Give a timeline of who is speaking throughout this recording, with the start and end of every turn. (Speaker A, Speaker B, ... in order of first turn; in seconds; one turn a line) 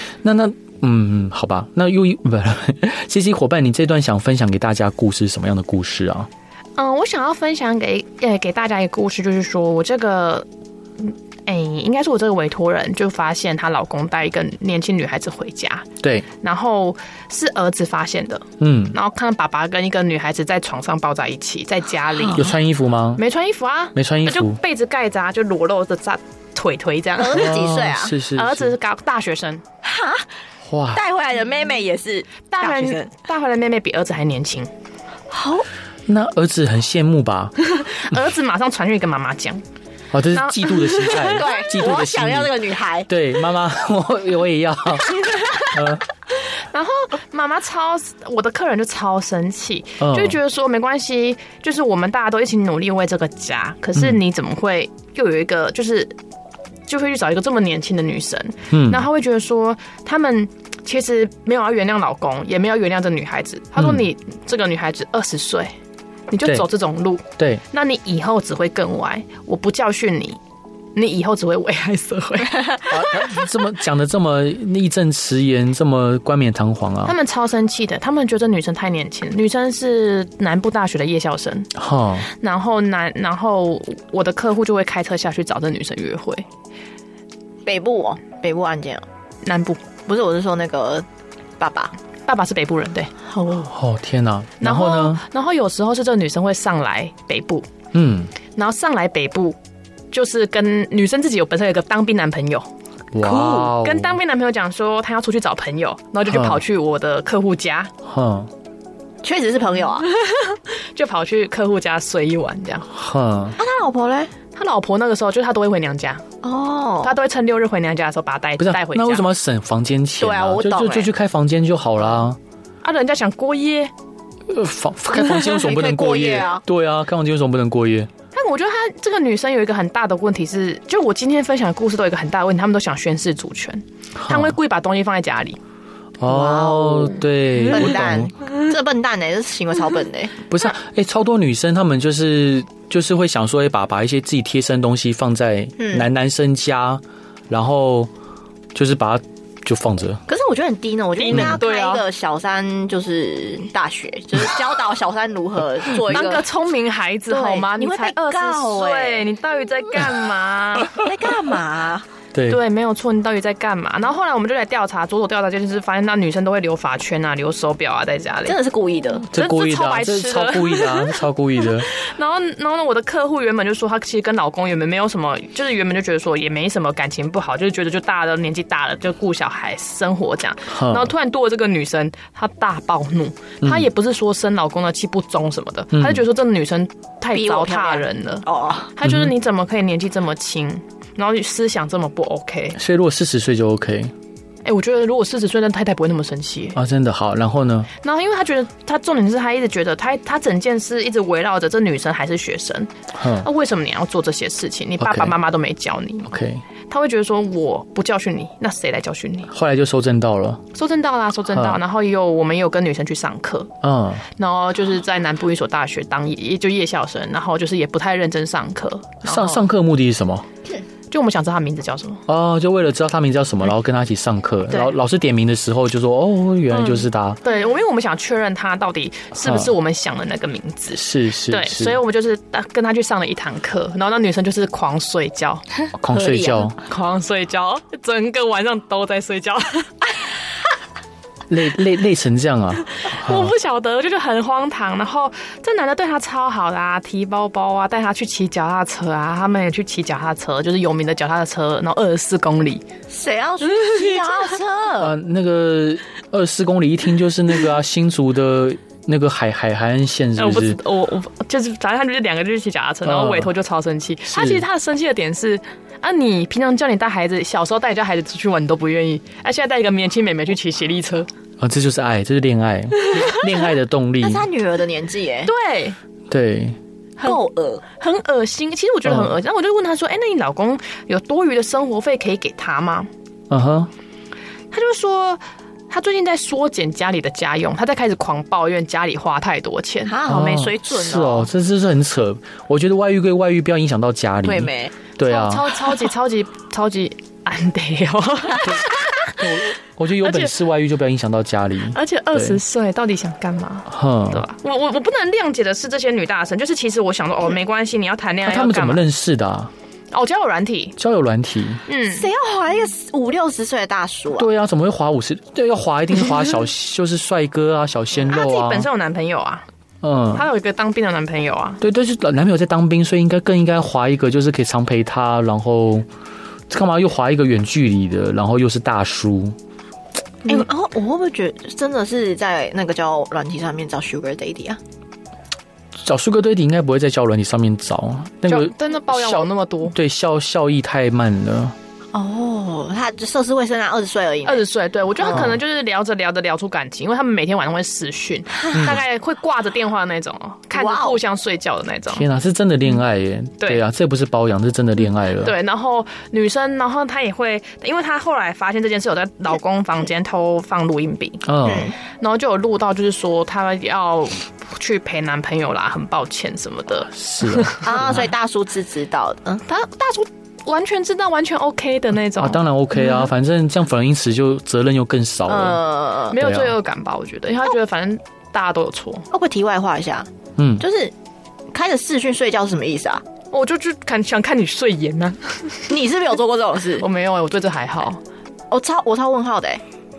Speaker A: 0.2-6.3
Speaker B: 6.8-10.5
Speaker B: 11.0-22.6
Speaker A: 18.6-19.0
Speaker C: 22.2-22.4
Speaker A: 22.3-23.2
Speaker B: 23.2-27.6
Speaker A: 23.9-24.6
Speaker C: 27.2-28.2
Speaker A: 27.3-28.7
Speaker B: 28.4-29.6
Speaker C: 29.8-30.2
Speaker A: 30.7-31.0
Speaker C: 30.9-33.1
Speaker B: 32.5-34.7
Speaker C: 35.3-35.6
Speaker A: 36.1-37.5
Speaker B: 37.8-39.6
Speaker A: 40.1-42.5
Speaker B: 40.3-41.5
Speaker C: 41.2-43.1
Speaker A: 43.1-46.0
Speaker B: 46.7-56.1
Speaker A: 50.0-50.4
Speaker B: 56.9-65.7
Speaker A: 58.7-59.0
Speaker A: 63.8-64.0
Speaker B: 66.3-70.4
Speaker B: 70.9-73.4
Speaker A: 72.9-77.2
Speaker B: 77.0-81.7
Speaker A: 81.7-82.3
Speaker B: 82.3-86.5
Speaker C: 87.6-89.0
Speaker B: 89.4-89.8
Speaker C: 90.0-91.0
Speaker C: 91.6-91.9
Speaker B: 92.2-93.3
Speaker C: 93.4-93.6
Speaker A: 93.7-95.2
Speaker B: 94.6-97.7
Speaker A: 97.9-98.3
Speaker B: 98.5-99.6
Speaker B: 100.1-102.7
Speaker A: 103.1-104.1
Speaker B: 103.2-107.9
Speaker A: 106.3-106.6
Speaker A: 108.0-108.5
Speaker C: 109.2-110.1
Speaker B: 110.2-112.9
Speaker A: 112.9-113.6
Speaker C: 113.6-114.3
Speaker B: 114.5-116.2
Speaker C: 116.4-117.2
Speaker B: 117.0-119.2
Speaker A: 118.6-122.4
Speaker C: 120.2-121.1
Speaker B: 122.8-123.9
Speaker A: 124.5-128.1
Speaker C: 125.2-126.6
Speaker B: 128.3-135.6
Speaker A: 134.2-134.5
Speaker A: 136.2-138.3
Speaker C: 136.3-140.3
Speaker A: 140.5-148.1
Speaker C: 145.8-146.1
Speaker A: 148.7-150.2
Speaker C: 150.3-156.4
Speaker B: 151.2-152.0
Speaker A: 151.3-151.6
Speaker B: 155.9-161.0
Speaker C: 157.3-159.2
Speaker C: 160.9-162.1
Speaker A: 162.3-162.6
Speaker B: 162.5-168.6
Speaker C: 168.4-169.3
Speaker B: 169.2-192.8
Speaker A: 169.3-171.9
Speaker A: 180.7-181.1
Speaker A: 185.9-186.2
Speaker C: 187.3-188.9
Speaker A: 189.0-189.3
Speaker A: 192.8-194.1
Speaker B: 194.6-196.8
Speaker A: 196.7-197.9
Speaker B: 198.0-202.9
Speaker A: 203.2-203.5
Speaker B: 203.4-206.3
Speaker A: 205.0-205.3
Speaker A: 206.2-206.6
Speaker B: 206.9-209.5
Speaker A: 209.5-210.6
Speaker B: 210.7-213.7
Speaker A: 211.5-211.8
Speaker A: 213.8-214.2
Speaker B: 214.3-219.6
Speaker A: 219.2-220.4
Speaker B: 221.1-222.2
Speaker A: 222.3-227.4
Speaker B: 226.7-235.6
Speaker A: 229.4-229.7
Speaker A: 230.9-232.0
Speaker A: 235.9-236.8
Speaker C: 236.1-236.7
Speaker B: 236.8-240.3
Speaker A: 241.5-243.5
Speaker B: 243.0-252.8
Speaker C: 253.1-255.1
Speaker B: 253.6-254.6
Speaker A: 255.0-260.8
Speaker B: 260.4-271.3
Speaker A: 263.0-263.5
Speaker A: 264.3-264.6
Speaker A: 271.6-274.4
Speaker C: 274.2-275.5
Speaker B: 275.4-276.0
Speaker A: 276.3-276.8
Speaker B: 277.2-283.1
Speaker C: 277.2-277.9
Speaker A: 279.0-279.3
Speaker A: 283.5-283.9
Speaker B: 284.7-290.4
Speaker C: 290.0-291.5
Speaker A: 290.2-295.8
Speaker C: 294.4-295.0
Speaker B: 295.2-299.4
Speaker A: 298.6-302.6
Speaker B: 300.2-300.5
Speaker B: 301.9-309.1
Speaker A: 303.9-304.4
Speaker A: 308.4-309.7
Speaker B: 310.1-311.0
Speaker A: 311.0-311.8
Speaker B: 311.9-312.3
Speaker C: 312.1-314.5
Speaker A: 314.3-318.9
Speaker B: 318.2-319.6
Speaker A: 320.0-320.4
Speaker B: 320.3-321.8
Speaker A: 321.8-326.1
Speaker A: 326.7-329.6
Speaker C: 330.4-334.8
Speaker A: 336.0-341.8
Speaker B: 338.5-339.9
Speaker C: 342.1-344.6
Speaker B: 344.4-352.2
Speaker C: 345.2-345.5
Speaker A: 345.3-345.6
Speaker A: 348.7-349.0
Speaker C: 350.7-351.2
Speaker A: 352.1-355.5
Speaker B: 355.4-361.5
Speaker A: 361.4-361.9
Speaker C: 361.6-361.9
Speaker B: 362.0-367.9
Speaker A: 367.1-368.2
Speaker C: 367.8-369.6
Speaker B: 369.7-372.6
Speaker A: 372.4-375.8
Speaker C: 375.5-376.4
Speaker B: 376.3-379.3
Speaker A: 376.4-376.7
Speaker C: 379.3-380.3
Speaker A: 380.6-380.8
Speaker C: 380.8-381.1
Speaker C: 381.7-383.2
Speaker B: 383.5-385.9
Speaker C: 385.9-387.1
Speaker B: 387.0-388.2
Speaker C: 388.7-389.8